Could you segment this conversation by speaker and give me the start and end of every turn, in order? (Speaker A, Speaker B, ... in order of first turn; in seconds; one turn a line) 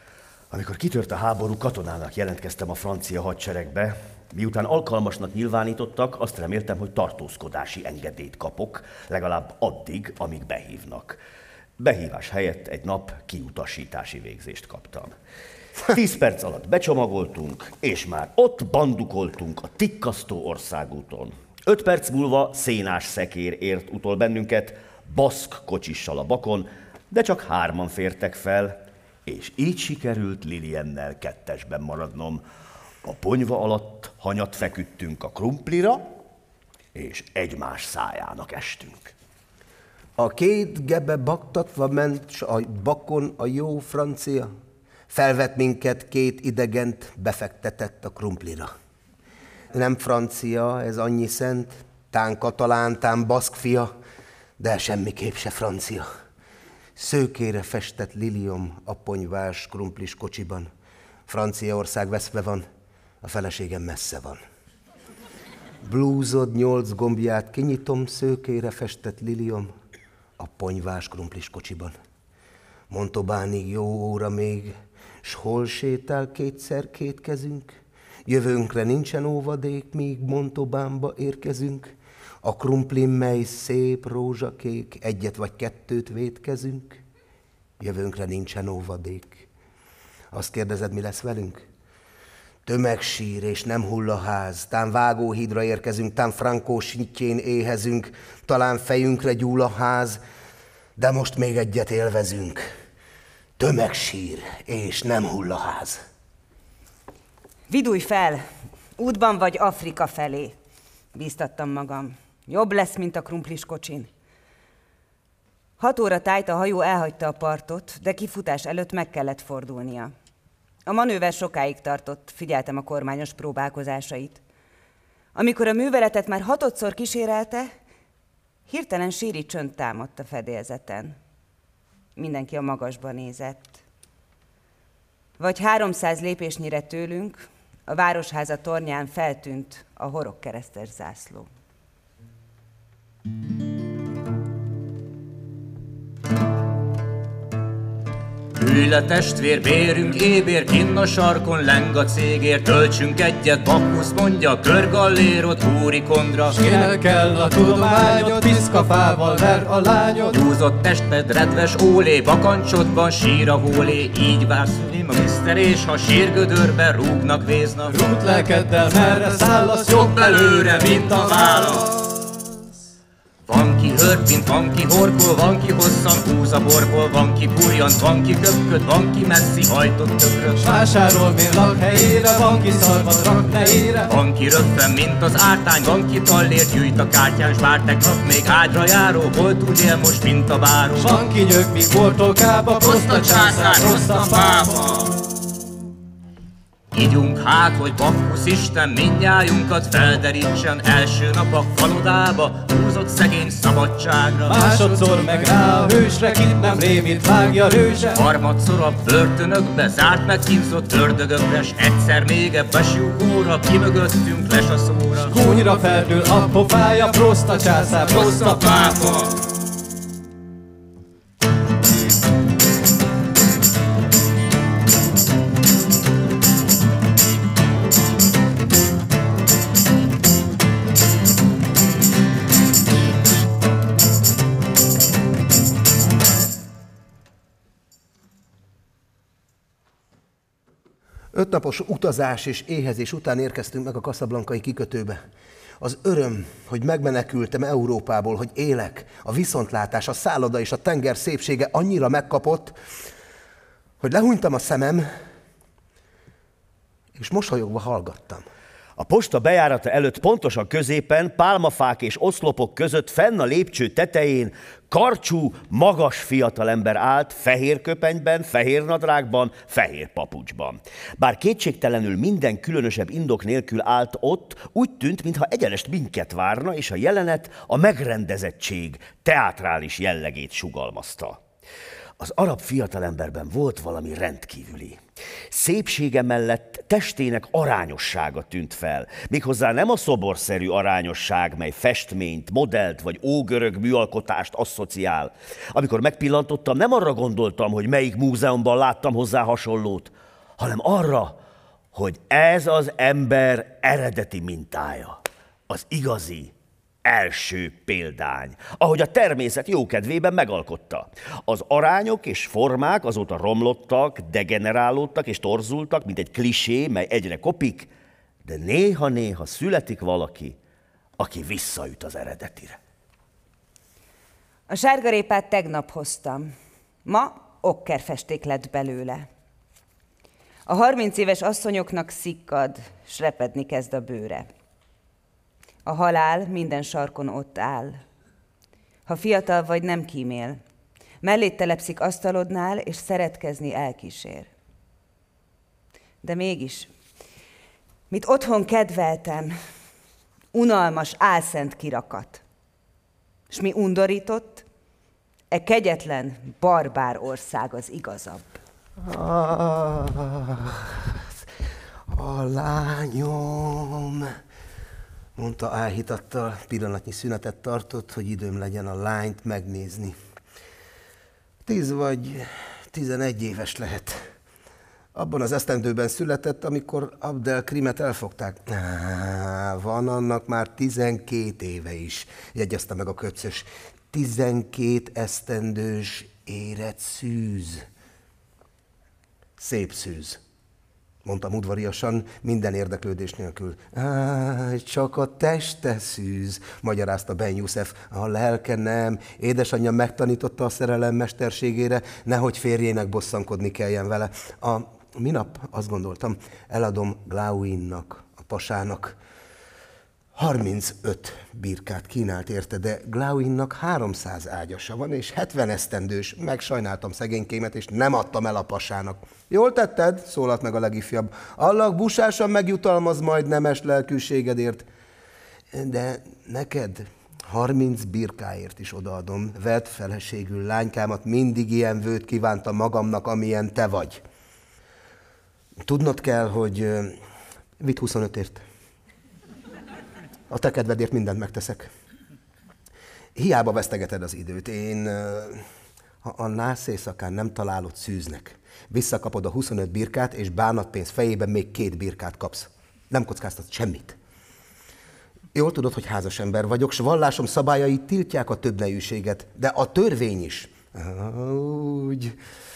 Speaker A: 0.5-11.2
Speaker A: 11.8-15.1
Speaker A: 15.9-32.4
Speaker A: 33.0-36.0
Speaker A: 36.9-39.1
Speaker B: 40.2-44.5
Speaker B: 45.1-48.7
Speaker B: 49.7-53.9
Speaker B: 54.6-56.1
Speaker B: 57.0-60.7
Speaker B: 61.3-62.6
Speaker B: 63.2-64.4
Speaker B: 65.8-69.7
Speaker B: 70.4-71.9
Speaker B: 72.9-87.0
Speaker B: 87.8-89.5
Speaker B: 90.3-91.6
Speaker B: 92.7-100.2
Speaker B: 101.0-102.6
Speaker B: 103.6-106.0
Speaker C: 107.7-108.4
Speaker C: 109.0-110.5
Speaker C: 111.1-114.1
Speaker C: 115.8-120.1
Speaker C: 120.9-124.4
Speaker C: 125.3-127.7
Speaker C: 128.7-131.2
Speaker C: 132.2-133.8
Speaker C: 135.4-141.5
Speaker D: 148.6-156.9
Speaker E: 156.5-160.3
Speaker D: 160.3-167.9
Speaker E: 167.9-171.7
Speaker D: 169.9-171.9
Speaker D: 173.5-180.7
Speaker E: 180.6-184.1
Speaker D: 184.1-191.2
Speaker E: 191.0-194.8
Speaker D: 192.8-195.1
Speaker D: 196.9-204.7
Speaker E: 204.5-208.2
Speaker D: 208.1-215.3
Speaker E: 215.3-218.7
Speaker D: 218.1-219.4
Speaker B: 241.3-245.2
Speaker B: 245.8-252.8
Speaker B: 254.0-255.1
Speaker B: 257.1-258.4
Speaker A: 259.0-281.4
Speaker A: 282.2-285.0
Speaker A: 285.5-301.4
Speaker A: 301.9-306.5
Speaker A: 307.0-317.9
Speaker A: 318.4-320.6
Speaker A: 321.2-322.8
Speaker C: 324.7-326.5
Speaker C: 327.0-329.3
Speaker C: 330.7-334.5
Speaker C: 335.9-338.0
Speaker C: 339.1-340.6
Speaker C: 341.2-344.5
Speaker C: 346.2-346.9
Speaker C: 348.1-349.5
Speaker C: 350.5-352.4
Speaker C: 353.5-354.6
Speaker C: 355.5-358.5
Speaker B: 359.0-361.2
Speaker B: 362.1-364.3
Speaker B: 365.4-370.1
Speaker B: 371.6-374.2
Speaker B: 375.1-387.8
Speaker B: 389.6-390.4
Speaker B: 391.2-409.1
Speaker B: 410.3-424.9
Speaker B: 425.7-434.2
Speaker B: 435.8-437.2
Speaker B: 437.8-438.6
Speaker B: 440.5-441.9
Speaker B: 443.4-445.6
Speaker B: 446.2-454.2
Speaker B: 455.5-462.4